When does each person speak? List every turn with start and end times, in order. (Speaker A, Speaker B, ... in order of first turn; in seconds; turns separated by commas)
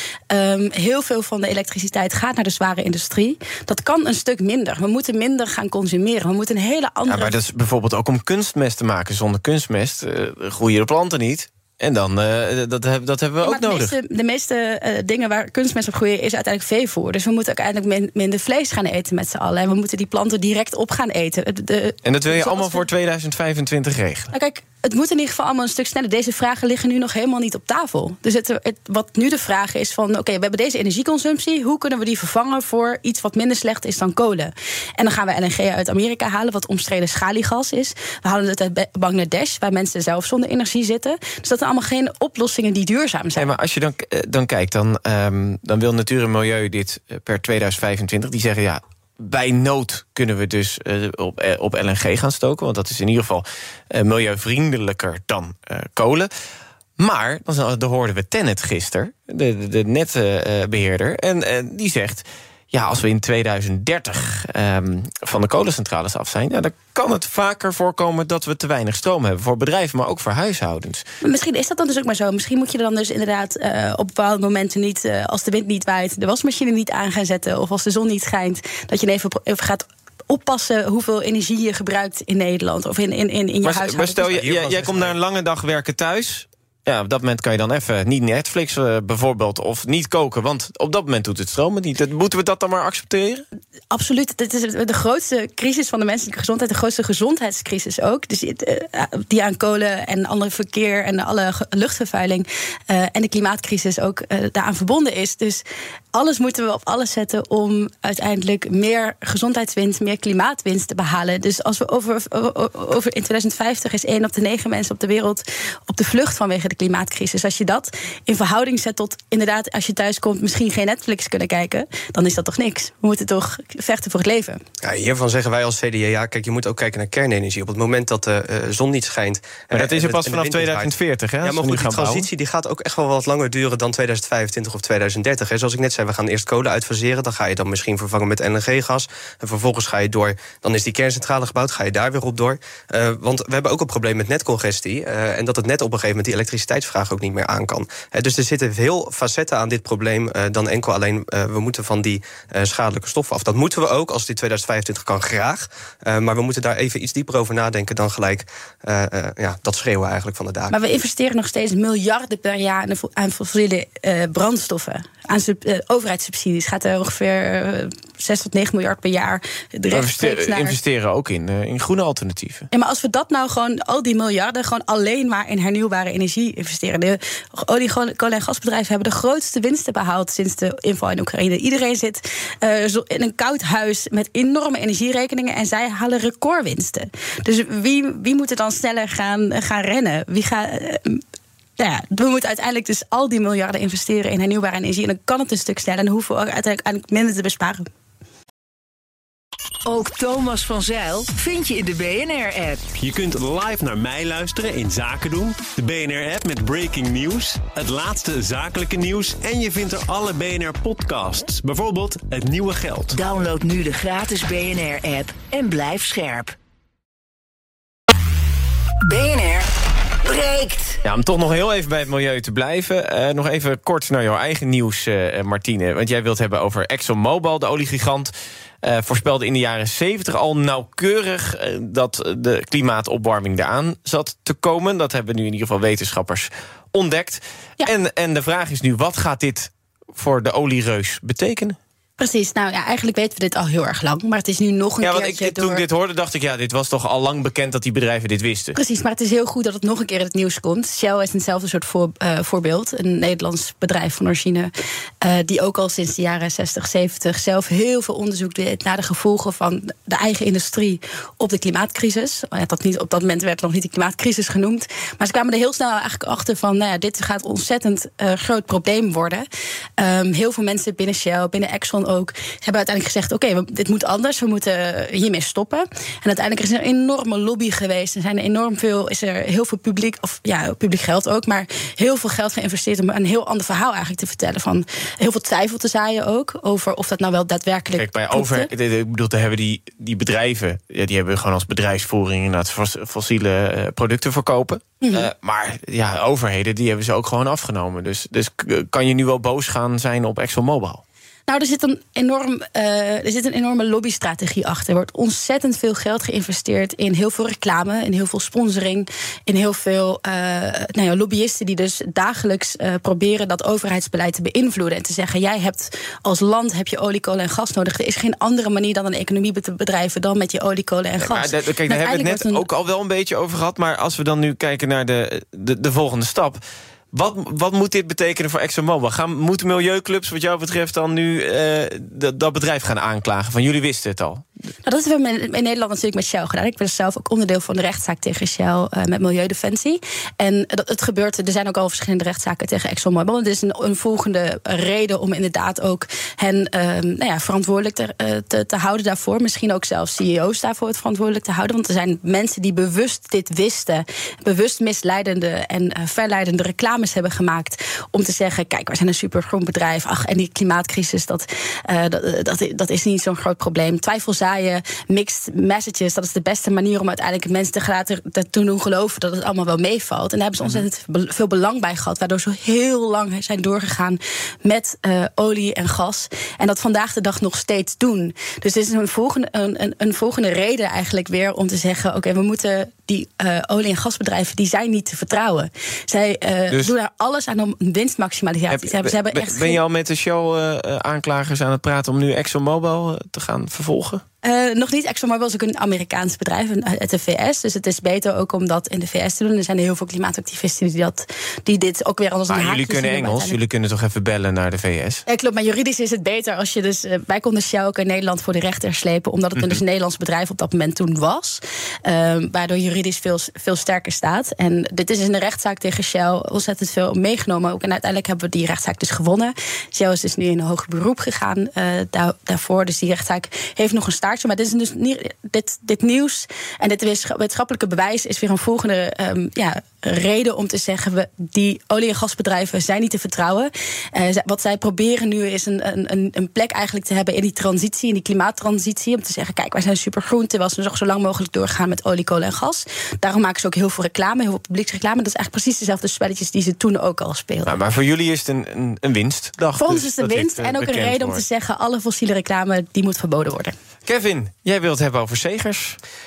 Speaker A: 0.3-7.4, Speaker B: 7.1-13.9, Speaker A: 13.4-22.9, Speaker B: 22.0-24.3, Speaker A: 24.3-43.5, Speaker B: 43.4-56.3, Speaker B: 57.0-71.0, Speaker A: 71.2-84.2, Speaker B: 83.6-93.4, Speaker C: 84.2-85.1, Speaker A: 93.9-105.6, Speaker A: 106.1-124.6, Speaker C: 124.8-130.9, Speaker B: 129.7-132.3, Speaker C: 131.4-160.7, Speaker A: 160.7-170.8, Speaker B: 169.9-172.7, Speaker A: 172.7-191.2, Speaker A: 191.8-197.8, Speaker D: 199.8-202.8, Speaker E: 202.9-213.2, Speaker D: 213.1-216.5, Speaker D: 219.1-219.7, Speaker D: 220.2-221.0, Speaker B: 221.0-228.3, Speaker B: 228.8-241.8, Speaker A: 242.2-245.8, Speaker B: 245.0-248.8, Speaker A: 248.8-254.7, Speaker A: 255.2-269.4, Speaker A: 270.0-288.7, Speaker B: 288.0-301.0, Speaker A: 295.0-295.3, Speaker A: 301.5-322.6, Speaker B: 321.2-326.6, Speaker B: 327.1-334.4, Speaker A: 334.9-389.8, Speaker B: 388.7-394.2, Speaker A: 394.4-403.6, Speaker B: 402.5-405.2, Speaker A: 405.3-447.8, Speaker B: 447.6-451.4, Speaker A: 449.8-453.7, Speaker B: 454.1-456.0